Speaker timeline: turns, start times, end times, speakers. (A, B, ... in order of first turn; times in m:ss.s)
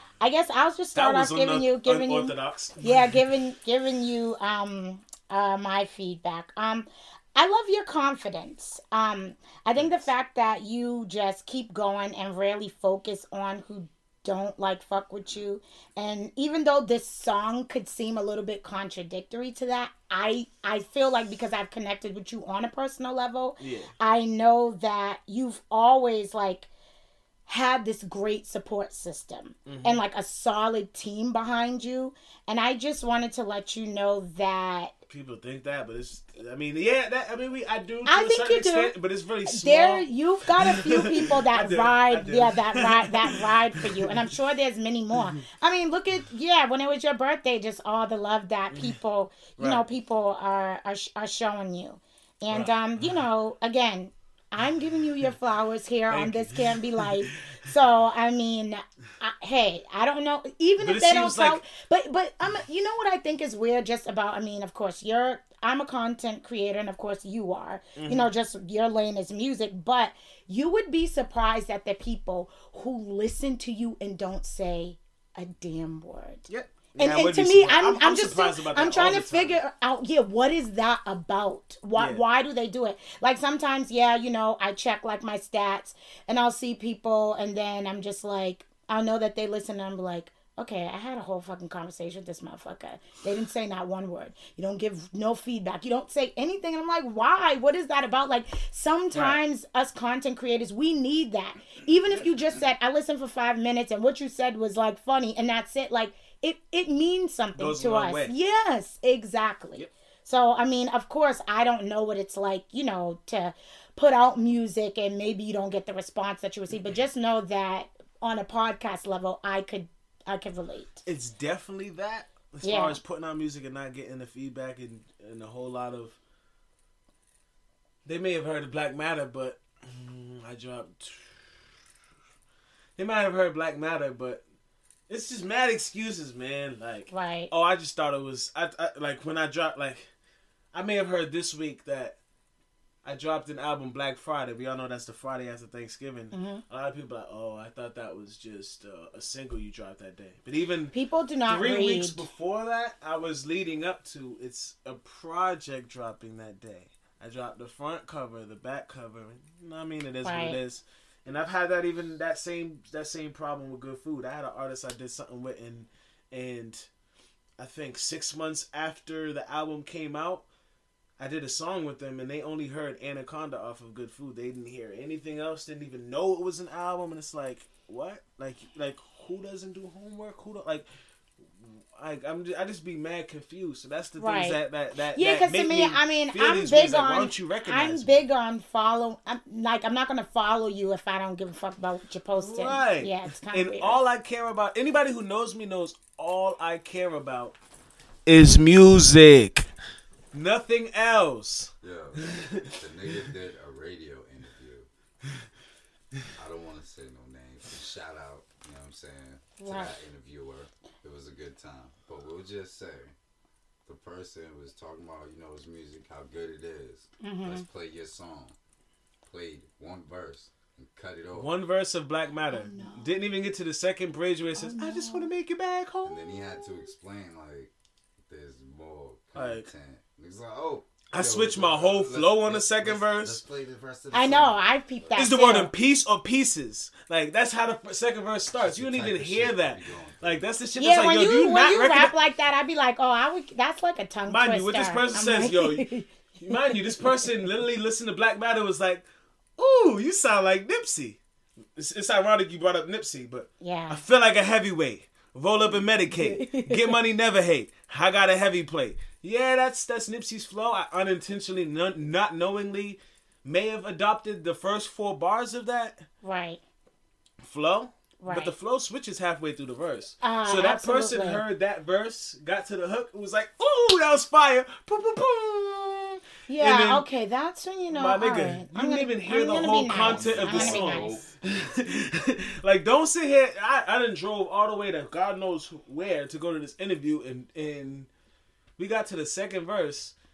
0:00.2-0:26.7 A
0:00.9-0:03.0 B
0:09.8-0:10.1 B
0:23.6-0:23.9 B
0:27.5-0:34.9 A
0:29.6-0:30.0 B
0:35.1-0:44.2 B
0:38.0-0:38.9 A
0:39.4-2:01.0 A
0:48.7-0:49.0 B
0:49.6-0:49.8 B
0:52.5-0:52.8 B
0:56.1-0:57.3 B
1:00.8-1:01.6 B
1:08.0-1:08.3 B
1:16.5-1:19.6 B
1:21.9-1:22.2 B
1:39.1-1:39.4 B
1:47.6-1:48.4 B
2:01.0-2:06.2 B
2:02.6-2:03.0 A
2:08.0-2:11.6 B
2:13.0-2:14.4 B
2:15.1-2:20.0 B
2:17.1-2:17.5 A
2:20.7-2:22.2 B
2:23.0-2:30.9 B
2:26.3-2:26.6 A
2:30.9-2:32.2 A
2:31.5-2:46.9 B
2:40.2-2:40.6 A
2:47.6-2:50.4 B
2:51.2-3:00.8 B
3:01.6-3:08.2 B
3:04.2-3:04.6 A
3:05.1-3:14.0 A
3:12.4-3:17.5 B
3:18.2-3:19.7 B
3:20.3-3:21.7 B
3:21.8-3:24.9 C
3:22.2-3:22.7 B
3:26.4-3:33.1 C
3:29.6-3:30.0 A
3:33.8-3:38.6 C
3:37.2-3:37.6 A
3:39.3-3:41.5 C
3:41.3-3:46.6 B
3:42.5-3:43.1 A
3:44.6-3:45.3 A
3:46.0-3:55.3 C
3:49.3-3:49.7 B
3:51.1-3:53.4 B
3:54.1-3:55.7 A
3:55.1-4:02.1 B
3:58.5-4:00.5 C
4:00.8-4:07.3 A
4:04.2-4:09.0 B
4:09.6-4:11.2 B
4:11.8-4:26.0 B
4:13.6-4:14.0 A
4:16.2-4:16.8 A
4:26.2-4:26.6 A
4:27.4-4:37.0 B
4:28.2-4:28.5 A
4:30.2-4:31.4 A
4:36.5-4:41.2 A
4:37.9-4:48.1 B
4:39.9-4:41.3 C
4:48.8-4:50.1 B